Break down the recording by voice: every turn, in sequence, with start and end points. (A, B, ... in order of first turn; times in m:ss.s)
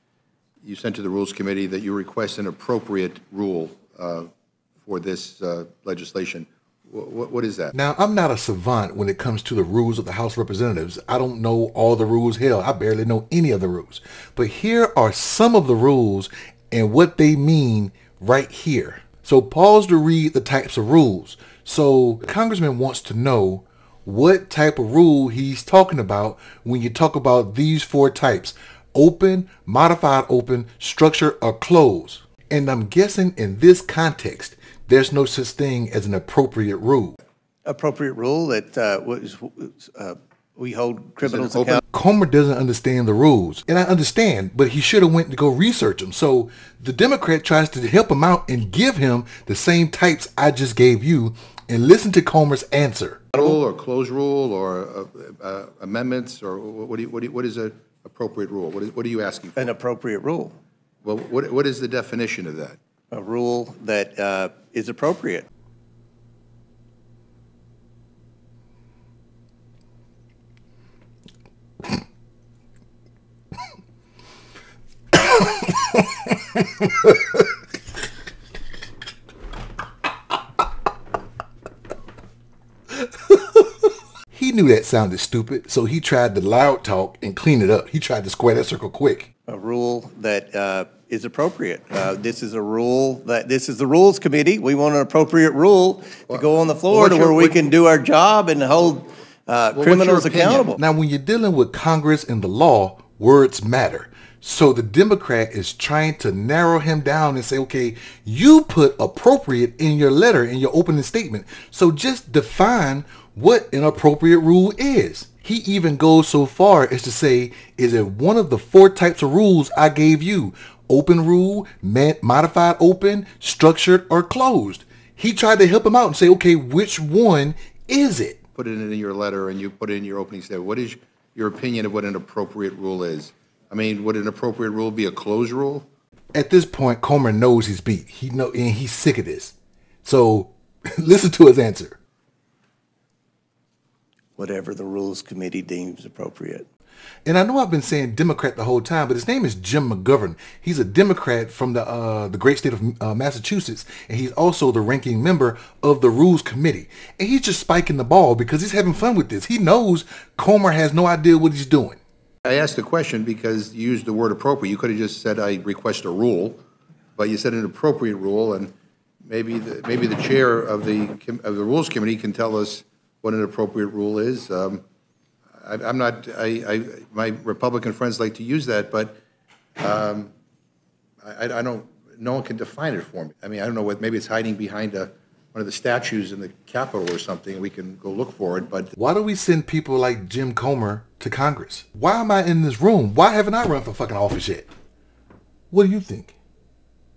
0:00.6-0:04.3 A
0:04.8-0:07.7 A
0:07.7-0:37.2 B
0:37.6-0:41.8 C
0:41.2-0:41.8 A
0:41.9-0:53.3 B
0:53.4-0:59.7 A
0:59.6-1:00.6 C
1:01.0-1:02.8 A
1:03.1-1:05.5 C
1:15.3-1:16.0 B
1:16.6-1:17.2 B
1:23.3-1:23.6 B
1:24.3-1:29.3 B
1:29.5-1:40.8 C
1:36.3-1:37.6 A
1:39.7-1:40.8 A
1:40.8-2:08.4 B
2:08.6-2:15.9 A
2:16.3-2:22.0 B
2:24.4-2:26.7 C
2:27.3-2:42.0 B
2:42.4-2:46.6 A
2:47.2-2:48.7 A
2:49.2-2:54.8 A
2:55.6-2:59.2 A
2:59.8-3:00.3 A
3:01.2-3:08.9 A
3:09.0-3:14.7 B
3:15.7-3:16.4 B